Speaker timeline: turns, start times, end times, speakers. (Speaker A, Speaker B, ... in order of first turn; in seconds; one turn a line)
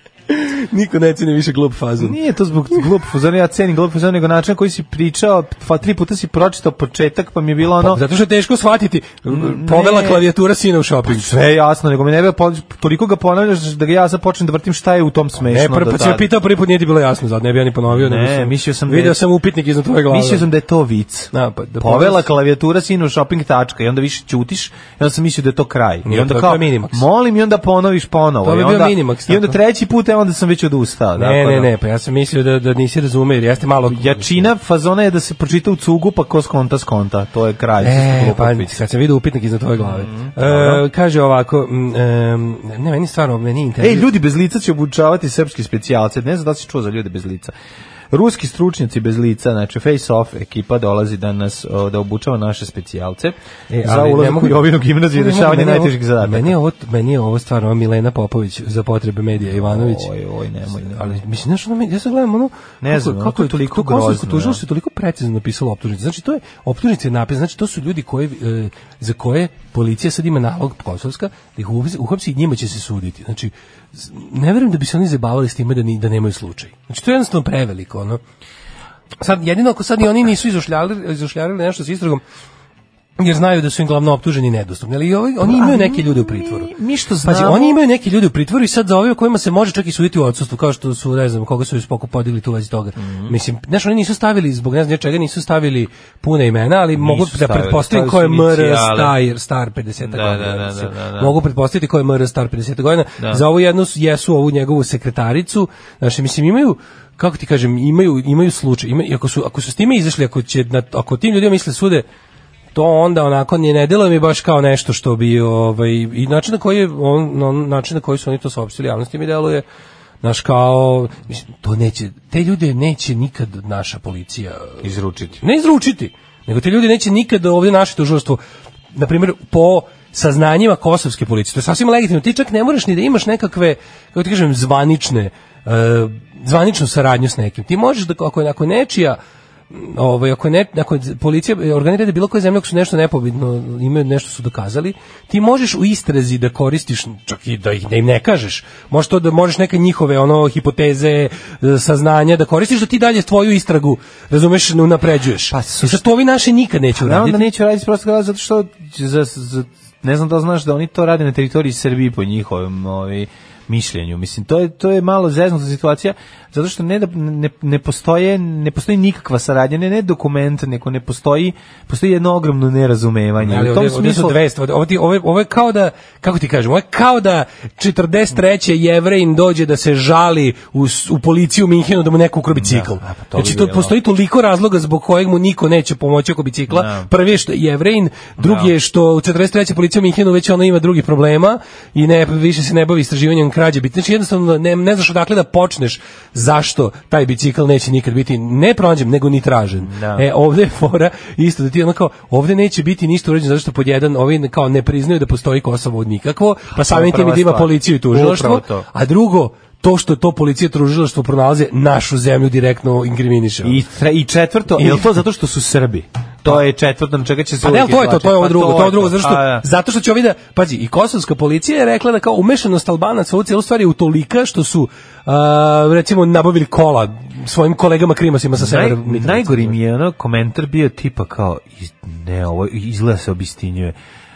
Speaker A: 0.3-2.2
Speaker B: 2.0-8.0
Speaker A: 7.8-11.3
Speaker B: 9.3-10.2
Speaker B: 11.1-16.3
Speaker A: 15.5-20.5
Speaker B: 17.9-19.2
Speaker B: 20.1-31.7
Speaker A: 21.3-22.3
Speaker A: 26.1-27.0
Speaker A: 28.4-29.6
Speaker A: 31.1-34.5
Speaker B: 33.9-38.8
Speaker A: 37.8-44.1
Speaker B: 39.8-40.9
Speaker B: 43.8-47.5
Speaker B: 48.1-56.5
Speaker A: 53.7-60.1
Speaker B: 59.4-61.2
Speaker A: 60.7-78.2
Speaker B: 62.8-64.6
Speaker A: 79.2-82.2
Speaker A: 83.2-86.7
Speaker B: 85.4-87.8
Speaker A: 87.2-112.0
Speaker B: 93.0-93.3
Speaker B: 96.9-99.2
Speaker B: 100.0-101.3
Speaker B: 103.2-103.4
Speaker A: 112.7-119.6
Speaker A: 120.2-124.8
Speaker B: 124.8-125.4
Speaker A: 125.4-128.4
Speaker A: 128.9-139.2
Speaker A: 139.7-157.5
Speaker B: 155.5-156.1
Speaker B: 156.9-174.4
Speaker A: 173.4-213.8
Speaker B: 182.5-183.9
Speaker B: 186.7-187.1
Speaker B: 188.4-188.7
Speaker B: 199.8-200.2
Speaker B: 206.7-208.8
Speaker B: 213.6-219.6
Speaker A: 214.8-215.1
Speaker A: 217.6-229.8
Speaker B: 228.5-233.9